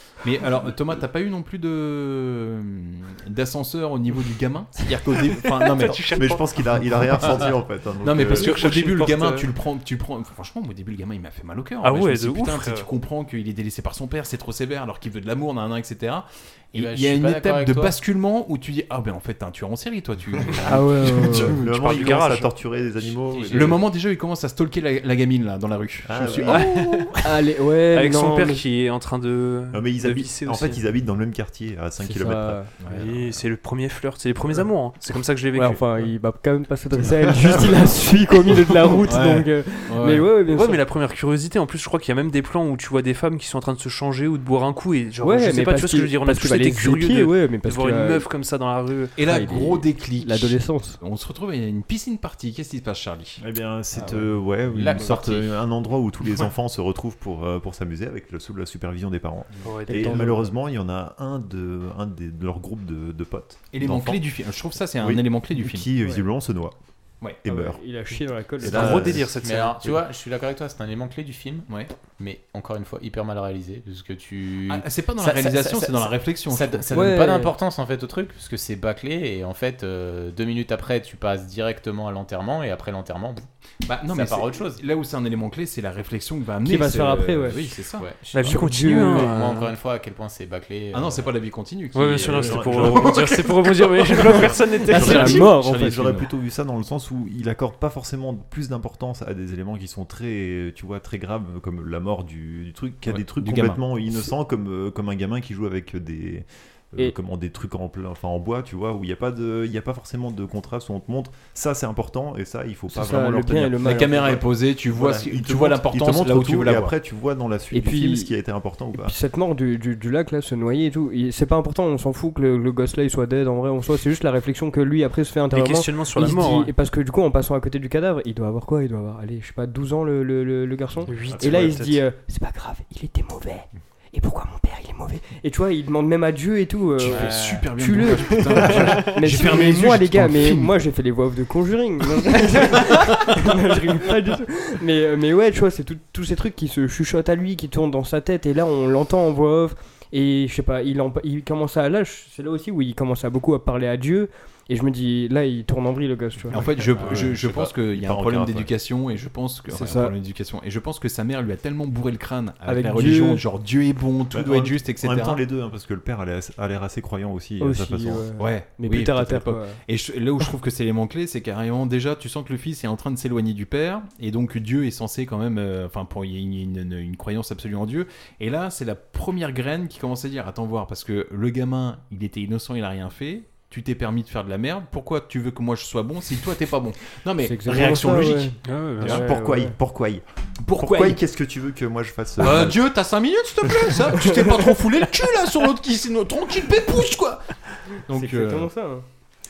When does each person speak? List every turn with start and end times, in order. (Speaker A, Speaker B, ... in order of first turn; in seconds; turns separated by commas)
Speaker A: 0.2-6.1, Speaker B: 5.4-6.5, Speaker C: 6.1-8.6, Speaker A: 8.0-21.6, Speaker B: 8.2-9.5, Speaker B: 11.8-12.9, Speaker D: 16.7-17.9, Speaker E: 20.6-21.6, Speaker C: 21.4-23.8, Speaker B: 21.6-22.5, Speaker B: 23.3-23.7, Speaker A: 23.5-26.9, Speaker C: 26.0-27.0, Speaker B: 26.4-27.1, Speaker E: 27.2-28.6, Speaker B: 27.9-30.8, Speaker C: 29.7-33.4, Speaker E: 32.0-32.7, Speaker A: 32.8-33.1, Speaker B: 32.9-35.8, Speaker E: 35.5-40.8, Speaker A: 39.0-40.3, Speaker B: 40.4-49.1, Speaker E: 45.2-48.3, Speaker A: 49.1-53.4, Speaker E: 49.2-51.0, Speaker C: 53.4-64.2, Speaker E: 54.0-54.3, Speaker D: 54.7-55.6, Speaker B: 59.6-60.2, Speaker E: 59.9-60.5, Speaker A: 63.7-65.8, Speaker C: 65.0-66.7, Speaker C: 67.4-67.8, Speaker E: 67.5-69.2, Speaker C: 68.6-69.3, Speaker A: 68.6-69.2, Speaker B: 68.7-70.0, Speaker D: 69.4-83.5, Speaker A: 74.7-76.9, Speaker E: 76.9-77.5, Speaker A: 83.8-88.1, Speaker D: 84.1-84.8, Speaker E: 86.6-87.8, Speaker D: 88.0-91.3, Speaker B: 88.3-89.7, Speaker E: 88.3-89.4, Speaker A: 90.9-93.5, Speaker B: 91.9-95.5, Speaker C: 92.2-93.2, Speaker A: 94.1-95.5, Speaker C: 94.2-119.2, Speaker E: 94.8-96.3, Speaker A: 103.0-103.8, Speaker E: 112.9-114.4, Speaker A: 113.8-116.9, Speaker E: 117.7-118.3, Speaker E: 119.0-157.1, Speaker B: 125.5-126.7, Speaker B: 131.1-132.0, Speaker C: 131.1-131.6, Speaker A: 131.3-131.7, Speaker A: 137.0-140.7, Speaker D: 137.1-137.6, Speaker C: 156.5-158.7, Speaker A: 156.5-165.4, Speaker E: 159.7-160.1, Speaker E: 162.6-163.4, Speaker C: 164.3-168.2, Speaker E: 167.6-169.8, Speaker A: 168.4-189.2, Speaker E: 187.4-189.7, Speaker B: 188.6-189.2, Speaker C: 189.0-192.9, Speaker A: 190.6-191.2, Speaker A: 192.4-198.7, Speaker E: 198.1-199.0